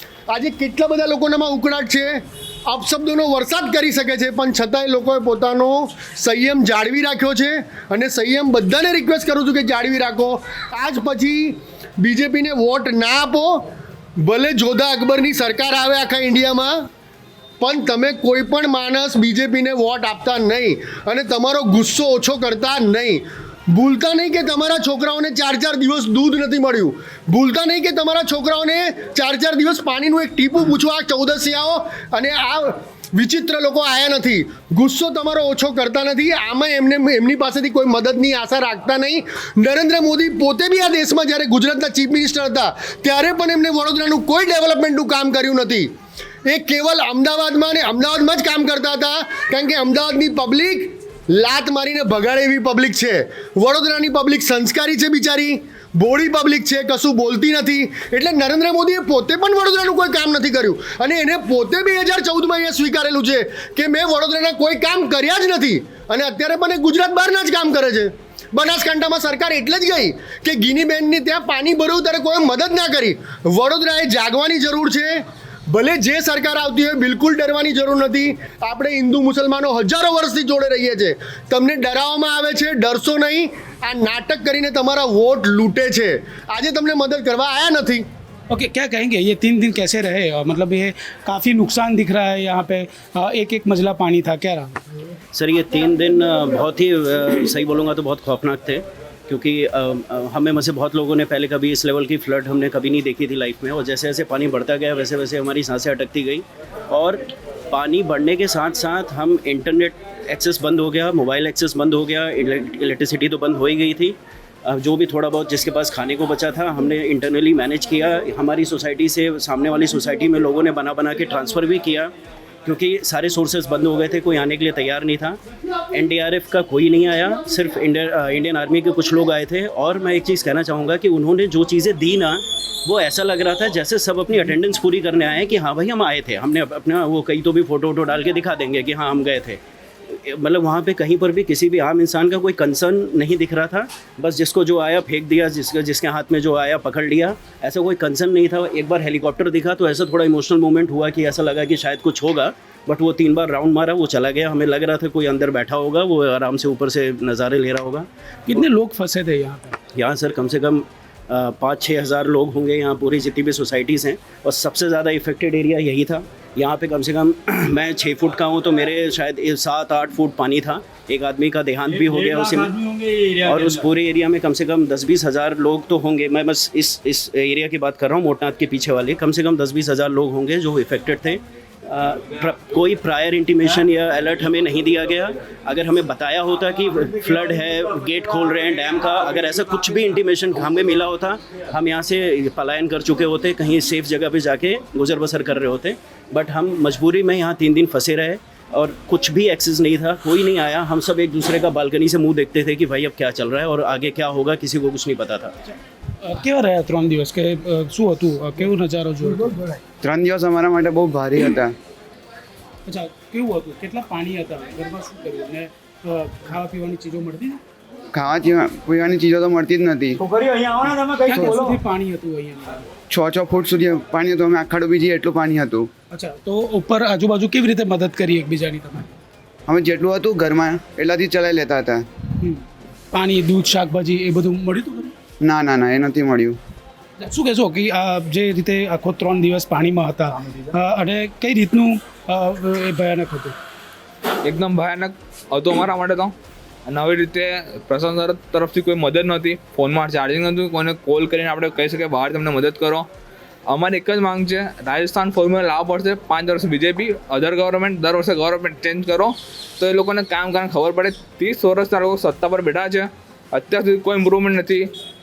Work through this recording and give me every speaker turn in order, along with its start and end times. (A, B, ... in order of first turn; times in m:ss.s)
0:00.3-0:13.7 A
0:14.2-0:16.9 A
0:17.6-0:45.9 A
0:46.4-1:28.0 A
1:28.5-1:35.0 B
1:35.3-1:54.2 C
1:54.7-2:02.1 C
2:02.6-2:05.4 C
2:05.9-2:19.6 C
2:20.2-2:38.1 C
2:38.5-2:39.8 B
2:39.9-3:25.5 C
3:26.2-3:29.7 B
3:30.0-3:31.7 D
3:32.8-3:37.6 B
3:38.1-3:40.2 D
3:41.1-3:42.9 B
3:43.1-3:45.9 D
3:46.1-3:49.1 B
3:49.7-3:52.1 D
3:52.4-3:55.1 B
3:55.4-3:56.6 D
3:57.2-4:03.6 B
4:04.4-4:06.3 E
4:06.8-4:13.1 E
4:13.7-4:24.9 E